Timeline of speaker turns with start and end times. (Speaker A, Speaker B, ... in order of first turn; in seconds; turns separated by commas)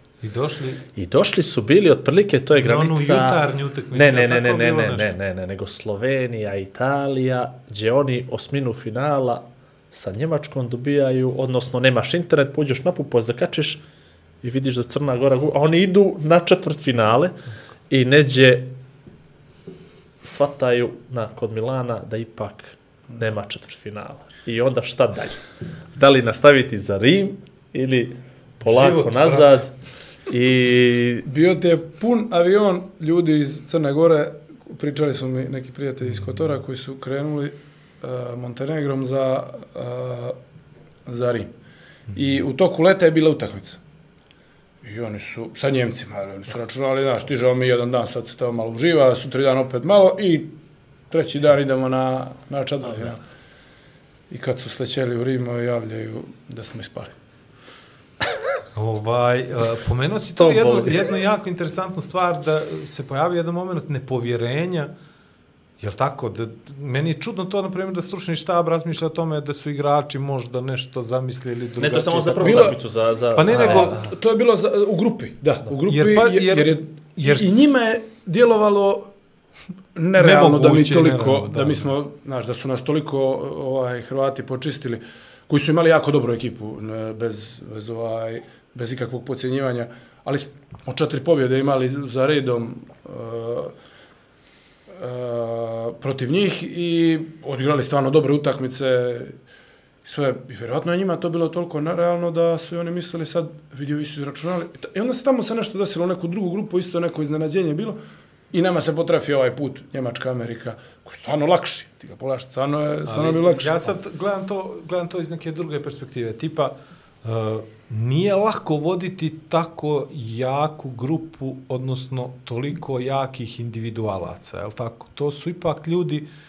Speaker A: 0.2-0.9, Speaker B: 0.9-13.8, Speaker A: 2.5-5.1, Speaker B: 14.4-17.4, Speaker B: 17.9-18.8, Speaker B: 20.2-25.4, Speaker B: 25.9-29.7, Speaker A: 28.6-29.6, Speaker B: 30.3-31.3, Speaker C: 31.3-40.4, Speaker C: 41.1-41.5, Speaker C: 42.1-43.8, Speaker C: 44.8-50.5, Speaker C: 51.1-53.2, Speaker C: 54.3-57.1, Speaker A: 58.8-64.9, Speaker B: 60.4-61.0, Speaker A: 65.8-72.8, Speaker B: 71.8-74.1, Speaker C: 72.4-72.8, Speaker A: 73.3-74.0, Speaker C: 73.5-79.1, Speaker A: 75.9-77.8, Speaker C: 80.0-93.7, Speaker A: 80.2-81.9, Speaker C: 94.9-99.4, Speaker C: 100.0-108.0, Speaker C: 108.5-114.0, Speaker A: 113.1-126.3